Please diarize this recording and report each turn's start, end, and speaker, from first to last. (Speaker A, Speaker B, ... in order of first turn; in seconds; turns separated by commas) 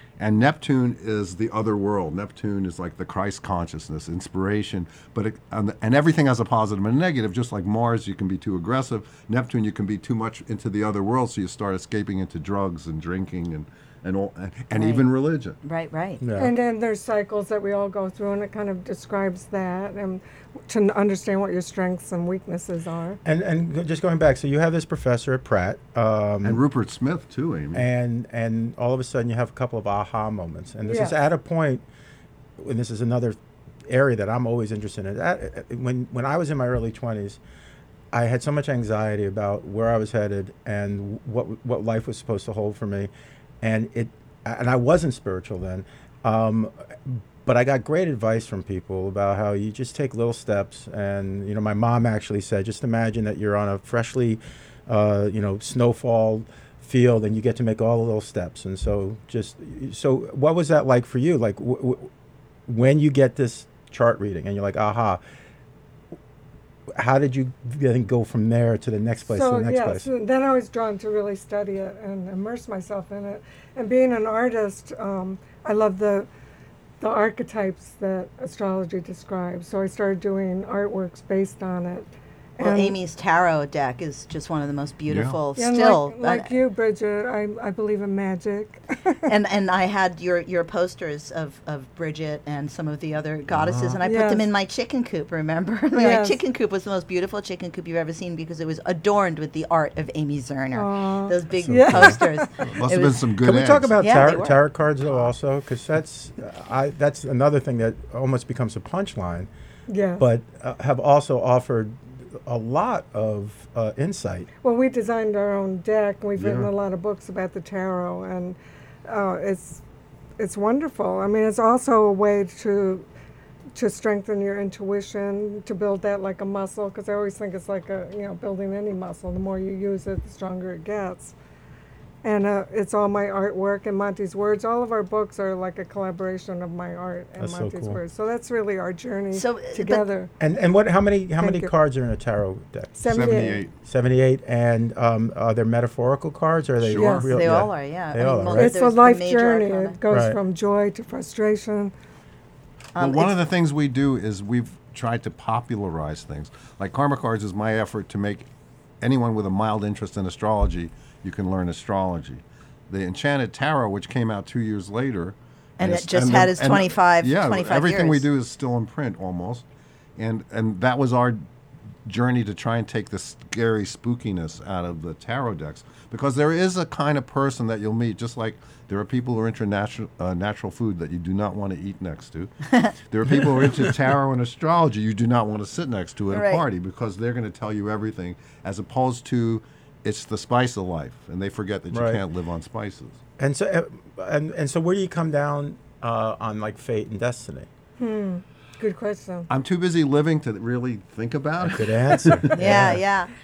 Speaker A: 0.2-15.6, Speaker B: 14.7-15.1, Speaker B: 15.6-16.2, Speaker C: 16.2-16.5, Speaker D: 16.4-23.2, Speaker C: 23.2-26.6, Speaker A: 26.4-27.9, Speaker C: 27.7-31.8, Speaker D: 30.9-31.1, Speaker C: 32.6-37.4, Speaker C: 38.1-43.1, Speaker C: 43.6-62.1, Speaker C: 62.7-65.2, Speaker C: 66.9-70.1, Speaker D: 69.3-76.3, Speaker D: 77.0-83.0, Speaker B: 82.6-86.5, Speaker A: 85.1-85.4, Speaker D: 85.5-89.2, Speaker B: 89.2-103.2, Speaker A: 93.5-94.0, Speaker D: 94.0-94.4, Speaker D: 95.9-96.4, Speaker D: 100.7-102.5, Speaker C: 101.6-102.2, Speaker A: 102.6-104.0, Speaker C: 103.4-109.5, Speaker B: 104.0-104.6, Speaker D: 109.9-110.2, Speaker C: 110.2-114.5, Speaker D: 114.6-119.8, Speaker A: 116.4-116.7, Speaker D: 120.4-123.0, Speaker D: 123.7-131.3, Speaker D: 132.2-140.3, Speaker C: 137.4-138.0, Speaker B: 139.3-140.1, Speaker C: 140.4-148.8, Speaker D: 141.4-141.7, Speaker D: 143.0-143.6, Speaker A: 143.1-143.7, Speaker A: 146.8-147.4, Speaker D: 147.0-147.3, Speaker B: 147.3-150.0, Speaker D: 148.5-151.9, Speaker C: 150.1-150.4, Speaker B: 152.9-153.3, Speaker A: 153.0-158.5, Speaker A: 159.0-169.6, Speaker B: 165.8-168.2, Speaker A: 170.2-171.4, Speaker A: 172.0-193.2, Speaker B: 186.3-186.6, Speaker C: 191.9-192.2, Speaker C: 193.4-197.7, Speaker D: 198.0-199.5, Speaker A: 199.5-203.0, Speaker C: 201.6-203.0, Speaker B: 202.5-203.3